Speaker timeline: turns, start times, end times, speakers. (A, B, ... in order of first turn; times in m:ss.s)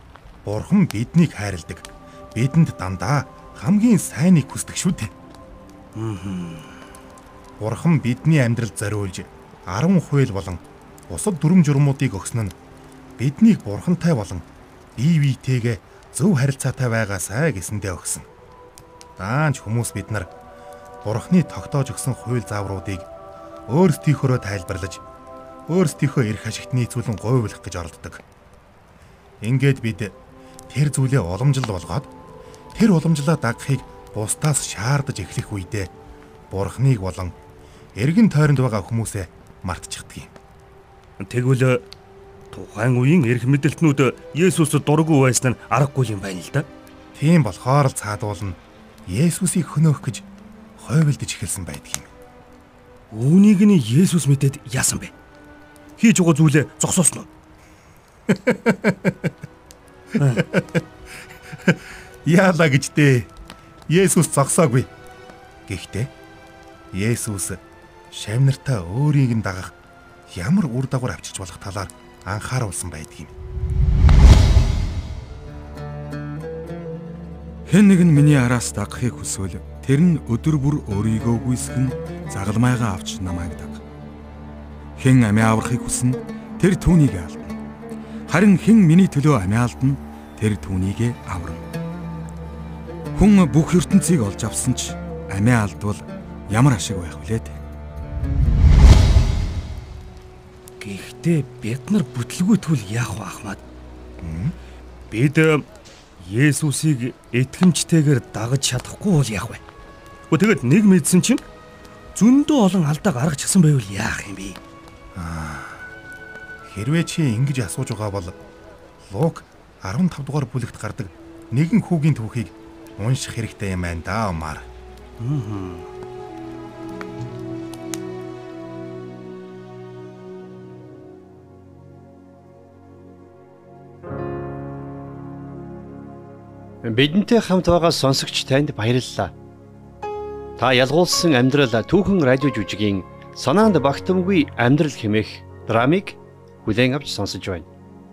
0:00.4-0:05.1 A
0:06.0-0:06.7 B
0:07.6-0:12.5 A
0:13.2-0:14.4 A
0:15.0-0:18.2 A
0:19.2-0:20.3 A
0:21.0-0:23.1 A
0:23.7-0:25.0 A
0:25.7-0:28.2 A
0:29.4-0:30.1 A
0:30.7-0:32.1 A
0:32.7-0:35.9 A
0:36.5-0:37.3 A
0:37.9-0:40.3 A
0:41.2-0:41.8 B
0:42.5-0:46.6 B
0:47.1-0:50.2 A
0:50.8-0:52.1 A
0:53.1-0:55.1 B
0:56.0-0:57.3 B
0:58.3-0:59.3 A
1:00.2-1:00.4 B
1:00.3-1:00.8 A
1:01.6-1:03.3 A
1:03.9-1:04.9 A
1:05.7-1:06.1 A
1:06.9-1:07.6 A
1:08.1-1:09.7 A
1:10.3-1:13.3 A
1:17.6-1:23.8 C
1:25.0-1:27.6 C
1:28.3-1:31.6 C
1:33.1-1:37.6 C
1:40.8-1:43.6 B
1:44.2-1:44.5 A
1:45.1-1:45.6 B
1:46.2-1:49.6 B
1:50.3-1:51.4 B
1:52.1-1:54.6 B
1:55.1-1:55.9 A
1:56.7-1:58.4 A
1:59.1-2:04.6 A
2:05.2-2:05.9 B
2:16.8-2:19.3 D
2:20.6-2:27.7 D